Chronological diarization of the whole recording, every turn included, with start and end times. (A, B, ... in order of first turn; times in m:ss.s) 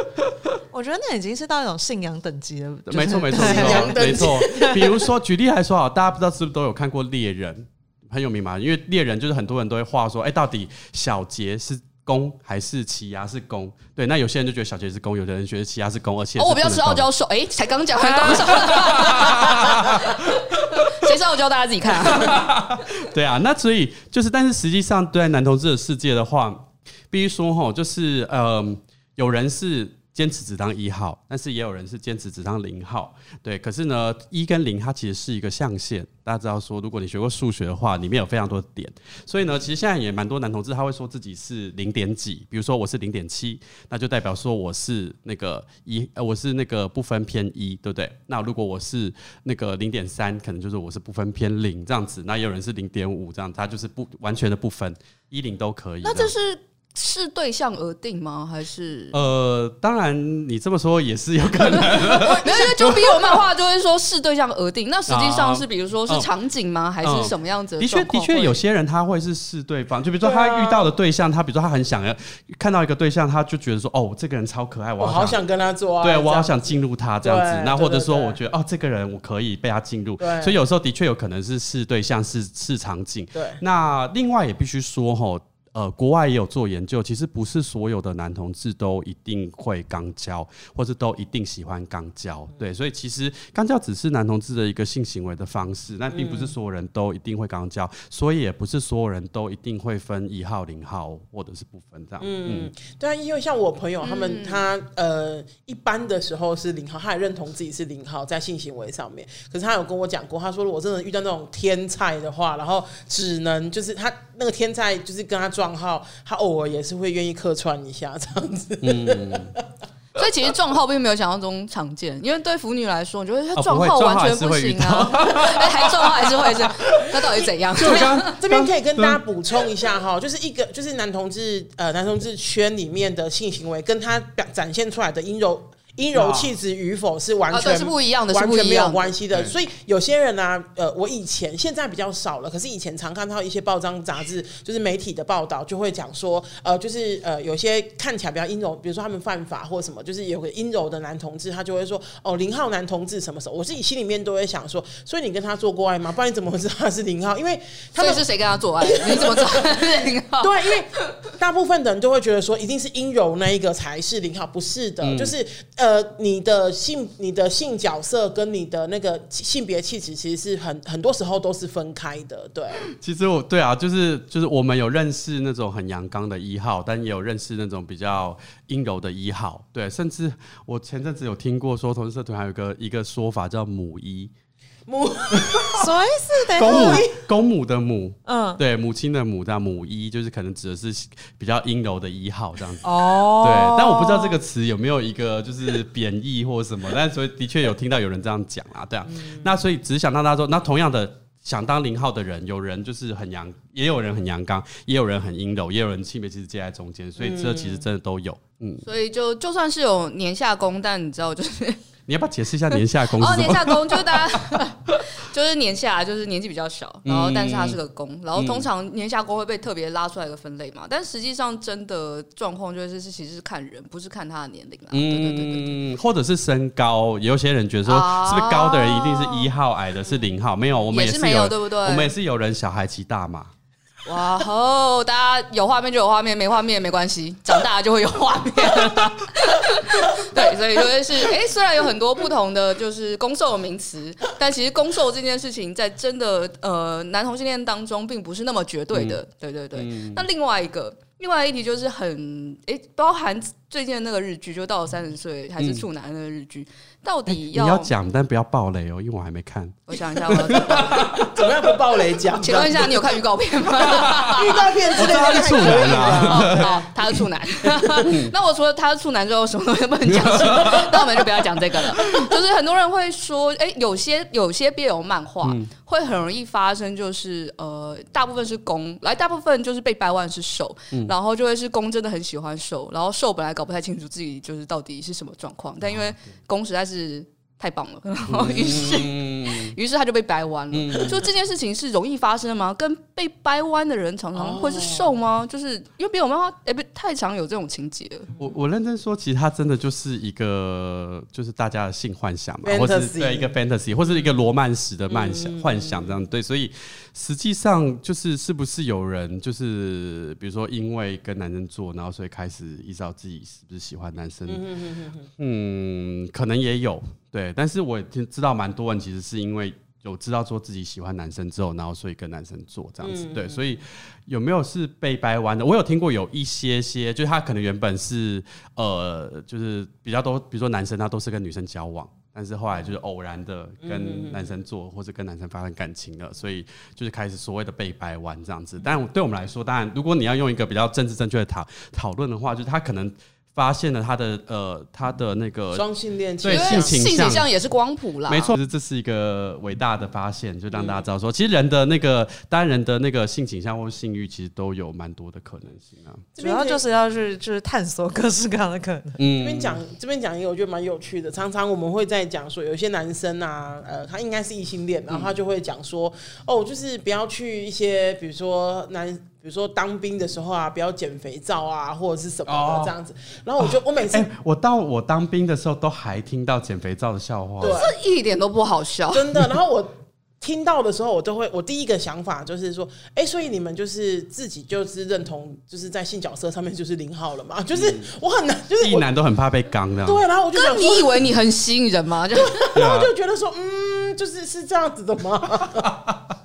0:00.7-0:04.8 A
0:02.9-0:17.1 B
0:03.3-0:05.1 C
0:16.4-0:22.4 D
0:18.0-0:21.1 B
0:22.0-0:56.3 B
0:56.0-0:59.2 D
0:59.1-1:03.4 B
1:01.7-1:08.6 D
1:05.1-1:06.3 B
1:07.0-1:15.4 B
1:10.2-1:10.9 C
1:15.0-1:18.4 C
1:16.0-1:42.7 B
1:20.2-1:20.6 C
1:23.3-1:23.6 C
1:36.1-1:36.5 C
1:42.2-1:59.6 C
1:44.0-1:44.7 D
1:58.8-1:59.5 B
2:00.1-2:08.3 D
2:03.5-2:09.2 B
2:08.4-2:38.2 C
2:16.1-2:16.5 B
2:17.5-2:19.1 D
2:38.0-2:41.0 D
2:38.8-2:39.9 C
2:40.4-2:52.9 C
2:45.0-2:45.3 B
2:52.9-3:04.3 B
3:04.9-3:06.0 C
3:05.7-3:07.1 A
3:06.6-3:07.1 C
3:06.6-3:28.8 B
3:08.2-3:08.6 A
3:12.8-3:14.4 A
3:19.1-3:19.5 C
3:27.2-3:27.8 C
3:28.8-3:31.8 D
3:32.1-3:34.6 B
3:33.0-3:45.8 D
3:37.0-3:37.8 B
3:38.4-3:38.7 B
3:44.9-3:53.5 B
3:47.8-3:49.5 D
3:50.9-3:52.1 D
3:54.0-4:17.9 D
4:08.9-4:09.2 B
4:09.8-4:10.2 B
4:17.4-4:21.5 B
4:19.9-4:21.0 D
4:20.6-4:23.1 C
4:22.4-4:58.3 D
4:23.8-4:26.8 C
4:23.9-4:24.2 B
4:24.9-4:26.8 B
4:27.7-4:28.1 C
4:27.9-4:28.3 B
4:30.1-4:32.3 B
4:35.4-4:35.7 B
4:48.3-4:49.7 B
4:50.7-4:51.2 B
4:54.3-4:55.1 C
4:58.4-5:14.6 B
5:02.6-5:03.5 C
5:05.1-5:06.1 C
5:14.5-5:15.3 C
5:15.4-5:45.9 B
5:23.0-5:23.6 C
5:33.8-5:34.5 C
5:45.7-5:47.0 C
5:46.4-5:47.5 B
5:46.5-5:48.5 D
5:48.3-5:56.3 B
5:50.7-5:51.0 C
5:56.3-5:56.8 C
5:56.4-5:59.2 A
5:59.2-5:59.8 B
5:59.3-6:14.3 C
6:12.5-6:12.9 B
6:13.6-6:17.8 B
6:17.6-6:17.9 C
6:17.6-6:19.2 D
6:19.1-6:29.0 C
6:27.7-6:28.1 B
6:28.8-6:30.2 B
6:30.0-6:31.2 C
6:30.5-6:32.8 D
6:32.4-6:36.0 C
6:32.7-6:33.1 B
6:35.9-6:36.2 B